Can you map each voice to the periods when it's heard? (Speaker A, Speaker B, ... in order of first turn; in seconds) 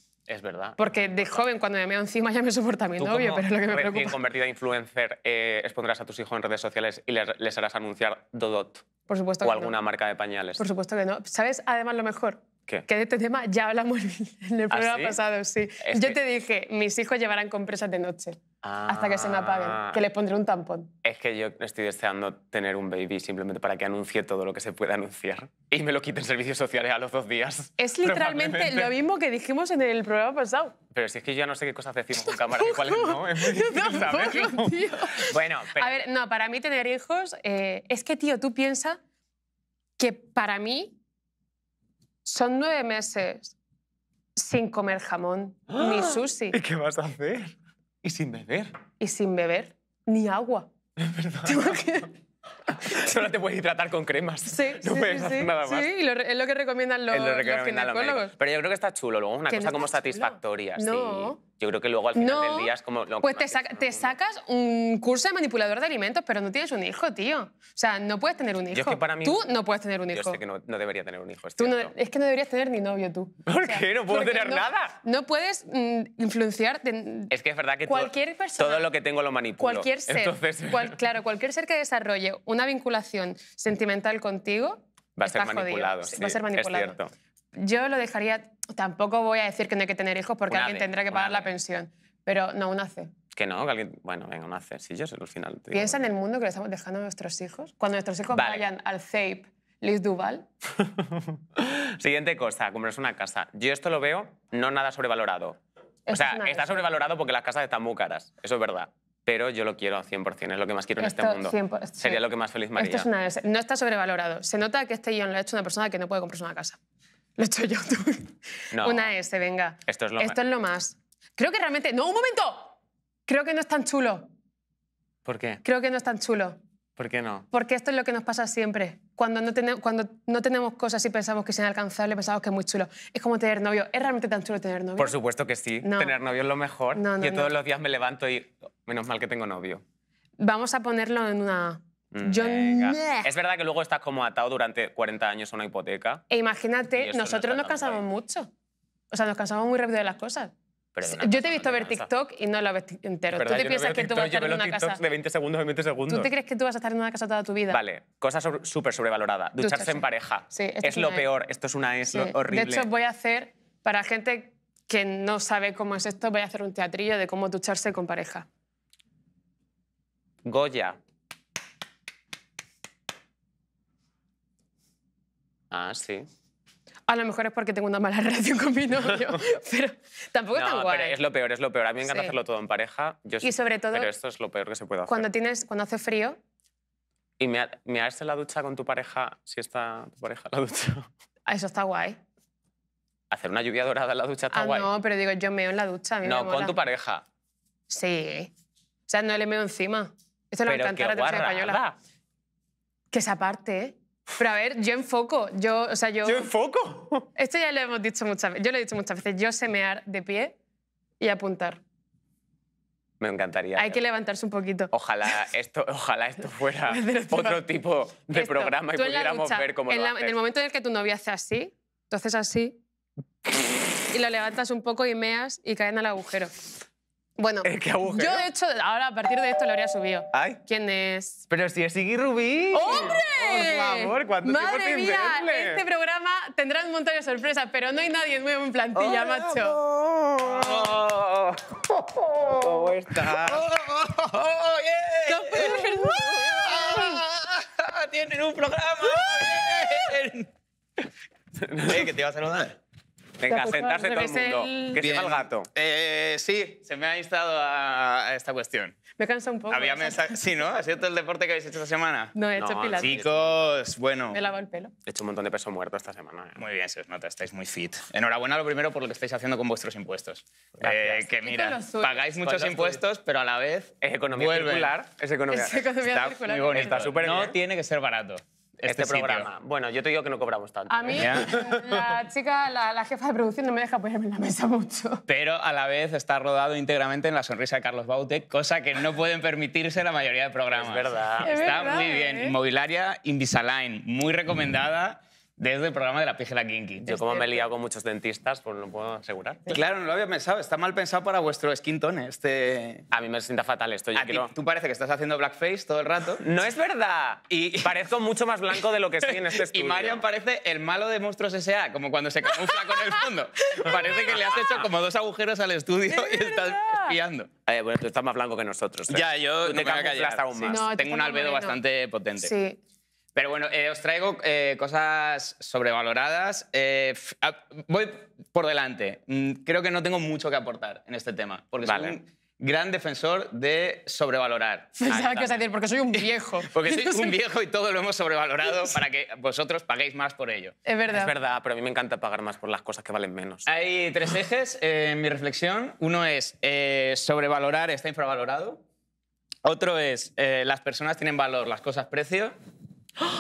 Speaker A: 0.3-1.4, 3.0-8.8, 9.4-10.6, 14.7-15.2, 15.8-16.2, 18.6-20.0, 21.0-28.9, 30.9-36.0, 45.7-47.5, 48.0-48.7, 51.0-51.8, 52.8-55.9, 57.1-64.1, 68.7-69.5, 70.1-71.9, 73.5-75.0, 77.3-81.0, 85.2-87.1, 90.5-91.5, 93.3-96.0, 98.3-98.7, 100.8-105.6, 106.1-113.1, 118.7-119.1, 119.9-120.4, 125.2-125.6, 127.0-127.5, 135.0-139.8, 142.1-146.2, 147.0-148.0, 150.9-152.1, 153.3-156.3, 157.7-162.9, 170.4-171.0, 175.7-176.3, 180.5-185.3, 187.4-191.1, 193.3-194.9, 196.2-197.2, 200.7-202.0, 206.2-207.3, 213.2-214.0, 214.9-220.4, 227.6-228.5, 230.3-230.6, 231.5-235.8, 239.0-241.5, 242.6-243.6, 251.6-252.1, 253.4-255.7, 262.6-263.6, 265.1-266.6, 270.8-271.3, 272.4-273.0, 274.0-275.9, 276.7-277.6, 278.9-282.0, 290.7-292.1, 297.1-299.8, 303.1-304.5, 306.4-310.3, 317.7-320.9, 331.8-332.1, 335.1-335.7, 341.1-343.7
Speaker B: 0.8-4.2, 9.1-9.8, 10.6-20.9, 27.8-30.8, 32.2-39.0, 40.0-40.9, 42.2-43.5, 44.4-46.6, 49.0-50.7, 51.4-52.1, 54.5-58.3, 59.5-61.4, 62.1-62.7, 63.2-70.4, 71.6-77.3, 77.9-78.9, 79.6-87.0, 87.6-93.1, 95.7-100.5, 106.1-106.8, 111.0-112.2, 112.8-116.8, 117.4-122.8, 123.3-124.3, 125.6-126.6, 127.5-135.2, 135.8-136.2, 136.9-137.6, 140.4-143.3, 146.3-148.5, 149.1-150.5, 151.2-155.0, 156.1-157.8, 159.6-161.3, 162.1-168.5, 177.1-181.2, 182.0-182.3, 183.4-184.1, 185.1-186.4, 191.5-192.2, 194.5-196.8, 197.9-198.5, 199.1-201.8, 203.1-206.5, 207.3-210.6, 211.2-211.8, 213.8-214.9, 216.9-217.6, 218.3-222.8, 224.1-226.5, 227.4-231.4, 232.7-239.8, 245.3-247.2, 253.5-255.0, 259.2-260.4, 262.3-263.2, 264.3-264.9, 271.4-272.2, 275.5-277.1, 280.9-285.2, 291.4-292.5, 297.1-297.7, 312.7-313.1, 316.1-317.2, 320.7-321.8, 322.4-322.8, 335.0-337.4, 340.9-341.3
Speaker C: 240.4-241.0, 241.9-250.5, 251.9-252.8, 255.0-259.0, 259.7-262.3, 263.0-264.4, 266.6-274.9, 276.1-279.5, 281.2-281.5, 285.3-297.2, 299.7-303.1, 304.2-306.4, 307.5-308.0, 309.2-317.5, 319.1-322.5, 323.4-334.9, 336.7-340.8, 343.7-348.8, 349.6-352.6